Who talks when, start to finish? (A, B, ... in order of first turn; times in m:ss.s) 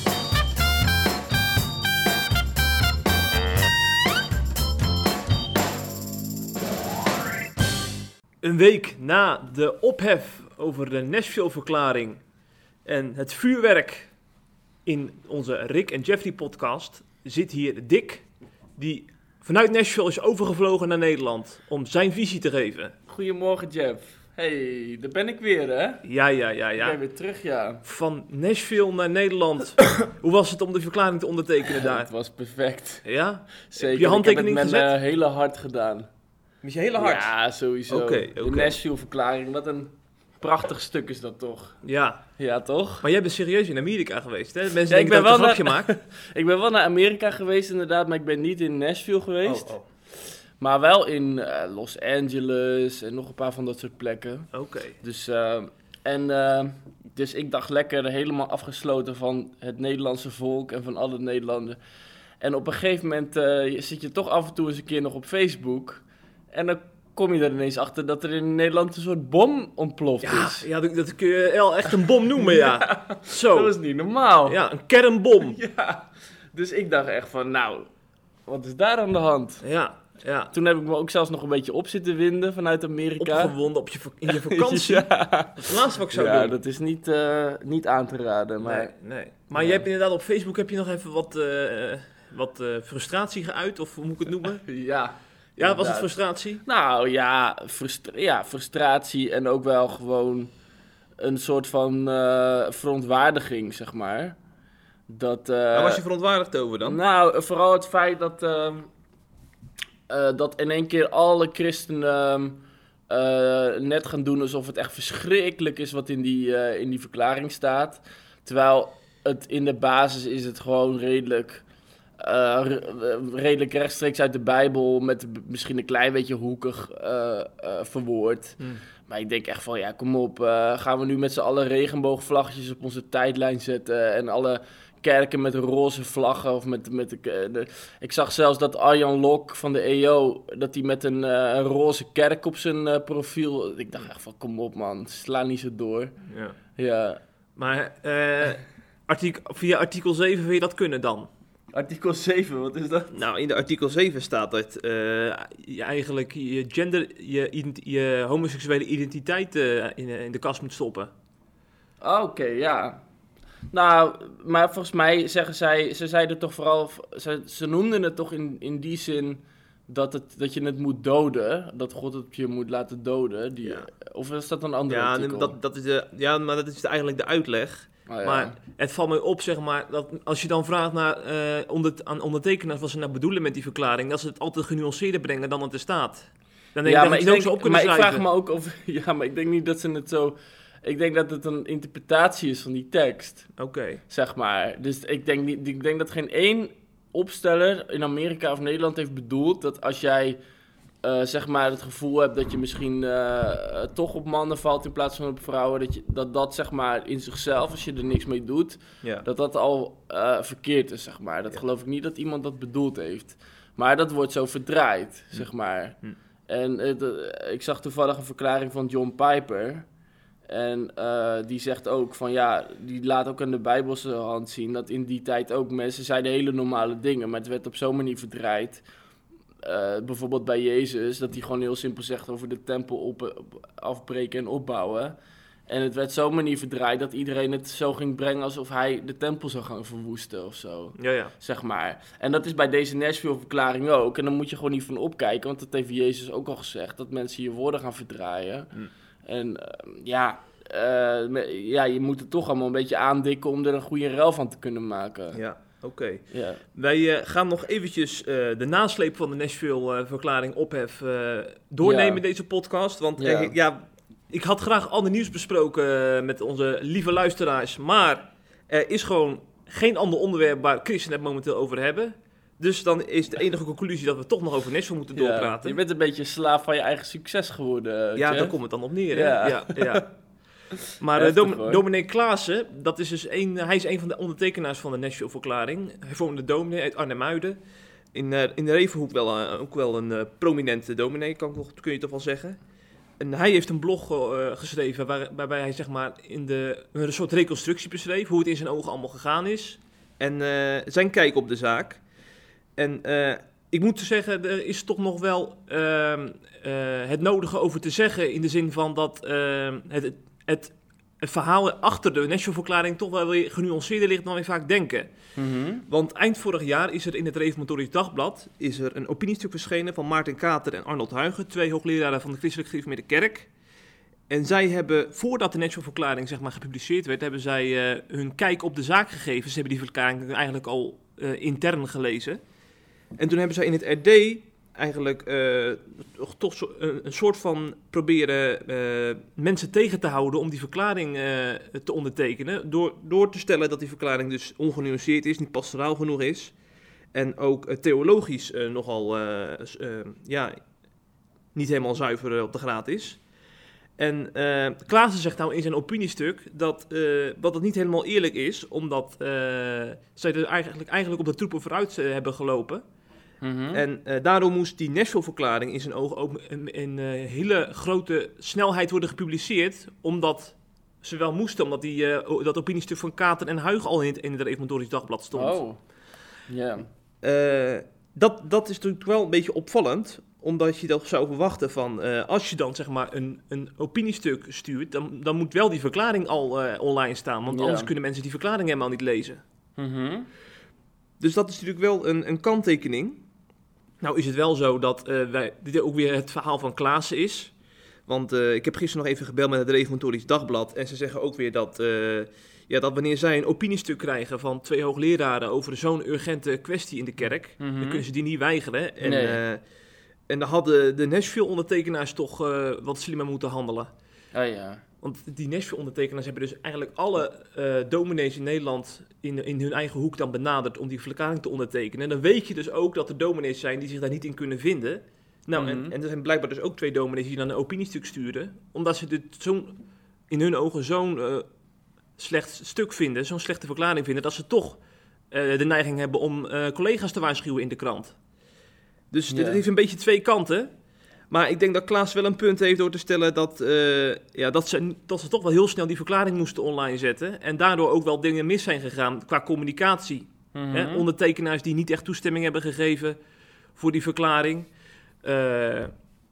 0:08.4-0:12.2 A
0:12.8-0:14.1 A
0:14.8-0:18.2 A
0:18.8-0:22.9 A
0:23.1-0:26.0 B
0:26.0-0:27.0 A
0:26.8-0:27.8 B
0:27.8-0:32.1 A
0:31.7-0:33.0 B
0:33.0-0:34.9 A
0:33.6-0:36.1 B
0:36.6-0:37.3 A
0:37.0-0:41.8 B
0:37.9-0:38.7 A
0:41.8-0:42.2 A
0:42.4-0:43.0 B
0:43.0-0:45.9 A
0:44.9-0:49.7 B
0:49.4-0:49.8 A
0:50.6-0:54.5 B
0:54.5-0:55.0 A
0:55.0-1:01.8 B
1:02.4-1:10.7 B
1:10.2-1:13.7 A
1:12.5-1:14.6 B
1:14.4-1:15.6 A
1:15.4-1:17.9 B
1:18.5-1:19.6 B
1:19.6-1:20.5 A
1:20.5-1:23.5 B
1:23.2-1:26.6 A
1:24.3-1:28.9 B
1:28.6-1:34.6 A
1:29.5-1:29.8 B
1:34.6-1:36.1 B
1:35.6-1:36.6 A
1:36.6-1:40.5 B
1:41.2-1:44.4 B
1:45.1-1:46.0 B
1:45.7-1:47.0 A
1:46.8-1:48.9 B
1:50.1-2:01.6 B
2:02.2-2:26.1 B
2:26.3-2:26.6 A
2:26.8-2:27.2 B
2:27.6-2:31.3 A
2:31.7-2:33.1 B
2:33.1-2:41.1 A
2:42.0-2:43.0 B
2:43.7-2:55.6 B
2:54.9-3:08.2 A
2:58.1-2:58.6 B
3:06.8-3:13.5 B
3:13.6-3:14.0 A
3:14.1-3:20.4 B
3:21.0-3:39.8 B
3:40.5-3:48.8 B
3:49.6-3:55.2 B
3:55.7-4:08.7 B
4:01.0-4:01.3 A
4:09.2-4:15.4 B
4:15.3-4:35.8 A
4:16.3-4:16.6 B
4:21.8-4:22.2 B
4:23.2-4:23.5 B
4:35.1-4:38.5 B
4:38.2-4:40.1 A
4:39.1-4:40.1 B
4:41.0-4:47.6 A
4:41.2-4:41.8 B
4:48.1-4:52.6 A
4:53.2-5:02.0 A
5:02.8-5:15.1 A
5:15.4-5:15.8 B
5:15.9-5:23.5 A
5:24.3-5:32.4 A
5:33.2-5:46.5 A
5:47.1-5:50.6 A
5:51.5-5:53.2 A
5:54.0-6:02.8 A
6:03.4-6:03.8 B
6:03.7-6:15.6 A
6:15.3-6:15.8 B
6:16.5-6:16.9 B
6:17.2-6:29.4 A
6:27.5-6:27.9 B
6:29.8-6:30.3 B
6:31.2-6:33.2 A
6:34.0-6:37.5 A
6:38.1-6:49.6 A
6:47.6-6:48.0 B
6:49.0-6:49.4 B
6:50.3-6:53.9 A
6:54.3-6:54.8 B
6:55.0-7:09.8 A
7:05.6-7:05.9 B
7:10.3-7:11.5 A
7:12.2-7:14.8 A
7:15.3-7:18.2 A
7:19.1-7:20.7 A
7:19.3-7:19.6 B
7:21.3-7:33.2 A
7:30.5-7:31.0 B
7:33.8-7:34.7 A
7:35.2-7:35.9 A